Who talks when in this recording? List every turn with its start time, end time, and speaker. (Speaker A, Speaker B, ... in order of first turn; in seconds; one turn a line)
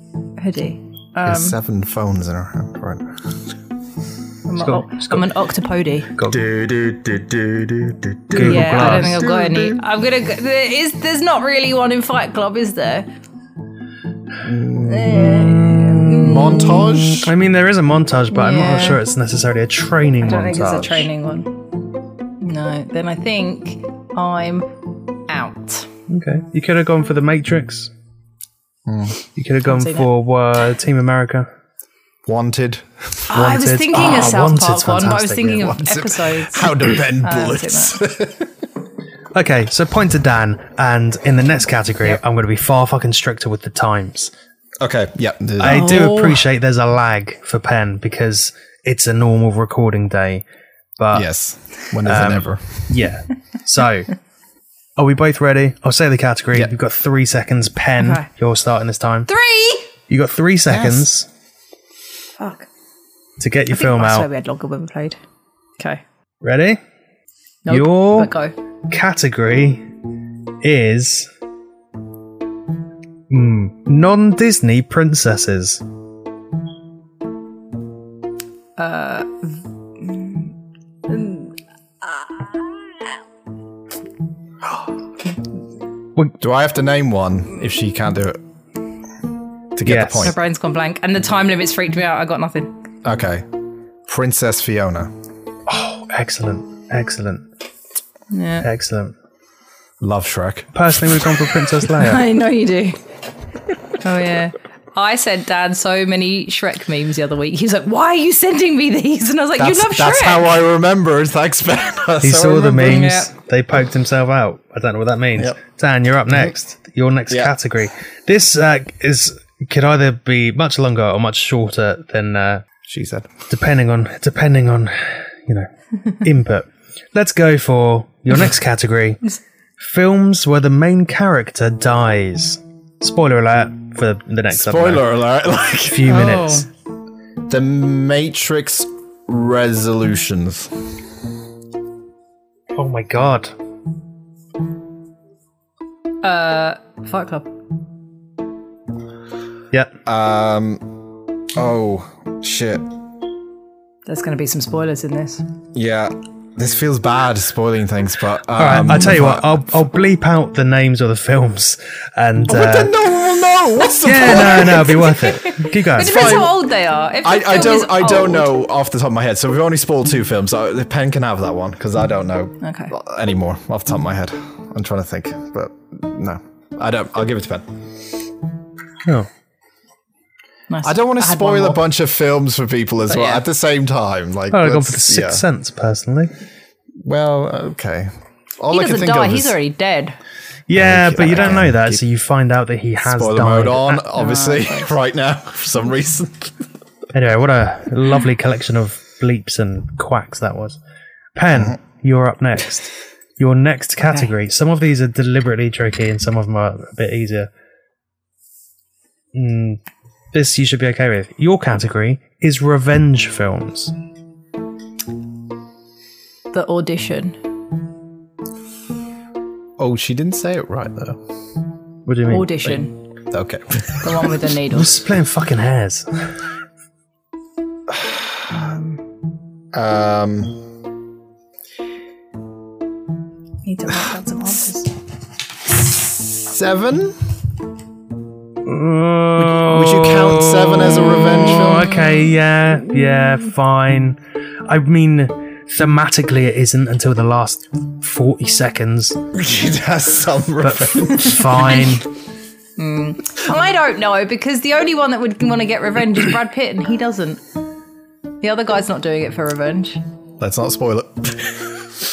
Speaker A: 0.4-1.6
Speaker B: 1.2-3.2
Speaker A: 4.5-6.1
Speaker C: 4.5-5.2
Speaker B: 6.3-9.8
Speaker C: 8.3-9.2
Speaker A: 8.4-13.1
Speaker B: 14.4-15.4
Speaker A: 14.8-16.9
Speaker C: 15.1-21.1
Speaker B: 16.1-17.3
Speaker A: 18.3-19.0
Speaker A: 20.2-21.6
Speaker A: 22.4-24.7
Speaker A: 25.3-25.9
Speaker C: 26.1-27.9
Speaker B: 28.9-29.1
Speaker C: 29.3-31.5
Speaker A: 29.6-30.1
Speaker B: 32.2-33.2
Speaker A: 33.3-37.9
Speaker C: 33.3-35.7
Speaker B: 35.6-38.5
Speaker C: 39.3-44.3
Speaker B: 44.8-46.2
Speaker C: 45.6-50.4
Speaker A: 45.6-46.4
Speaker C: 51.0-51.3
Speaker B: 51.1-52.8
Speaker C: 52.0-54.1
Speaker C: 55.0-59.3
Speaker A: 58.0-58.3
Speaker A: 59.3-59.9
Speaker C: 60.1-61.3
Speaker B: 60.7-61.1
Speaker A: 62.4-62.7
Speaker C: 63.4-64.3
Speaker A: 63.7-65.2
Speaker C: 66.4-66.8
Speaker A: 67.6-68.5
Speaker C: 67.7-68.3
Speaker C: 68.9-69.8
Speaker C: 70.6-71.3
Speaker C: 73.3-75.8
Speaker A: 78.8-80.5
Speaker A: 81.1-83.1
Speaker B: 86.4-88.4
Speaker B: 89.7-90.3
Speaker C: 89.8-90.3
Speaker A: 90.2-92.7
Speaker B: 93.0-93.5
Speaker B: 94.0-95.1
Speaker C: 95.7-97.5
Speaker A: 98.3-98.7
Speaker C: 98.6-99.1
Speaker B: 100.0-100.7
Speaker C: 100.7-102.2
Speaker A: 102.0-103.0
Speaker A: 104.0-110.5
Speaker B: 109.6-113.0
Speaker C: 112.2-122.6
Speaker A: 112.7-113.3
Speaker B: 117.3-117.5
Speaker B: 122.8-123.3
Speaker C: 123.5-129.2
Speaker C: 129.8-135.1
Speaker B: 134.5-136.4
Speaker C: 135.8-136.7
Speaker A: 136.1-136.7
Speaker B: 137.5-140.8
Speaker C: 142.7-143.5
Speaker A: 146.2-147.5
Speaker B: 150.0-150.9
Speaker B: 151.5-152.9
Speaker A: 154.1-155.4
Speaker B: 155.7-159.6
Speaker C: 158.6-162.9
Speaker B: 162.5-165.1
Speaker C: 164.0-166.5
Speaker A: 164.1-168.6
Speaker B: 166.0-166.6
Speaker B: 167.2-177.7
Speaker A: 172.6-172.9
Speaker A: 180.7-181.8
Speaker B: 180.8-185.4
Speaker A: 183.1-183.4
Speaker C: 184.5-186.3
Speaker B: 187.0-189.6
Speaker A: 188.7-190.2
Speaker C: 190.7-194.0
Speaker B: 190.7-192.0
Speaker B: 193.0-196.6
Speaker A: 194.1-194.9
Speaker C: 197.1-200.8
Speaker C: 201.3-207.5
Speaker B: 201.5-201.8
Speaker C: 209.3-209.8
Speaker C: 210.3-213.9
Speaker A: 216.5-217.4
Speaker B: 219.8-221.2
Speaker C: 222.1-222.9
Speaker A: 222.3-222.9
Speaker B: 223.3-224.1
Speaker A: 224.0-224.9
Speaker C: 224.7-226.1
Speaker B: 227.9-228.2
Speaker A: 228.5-229.0
Speaker B: 229.7-230.6
Speaker A: 233.6-234.9
Speaker B: 235.9-237.2
Speaker C: 238.6-249.2
Speaker B: 239.4-242.0
Speaker B: 249.3-251.8
Speaker C: 250.6-252.0
Speaker A: 251.6-251.9
Speaker A: 252.8-257.4
Speaker A: 258.4-260.0
Speaker B: 260.4-261.9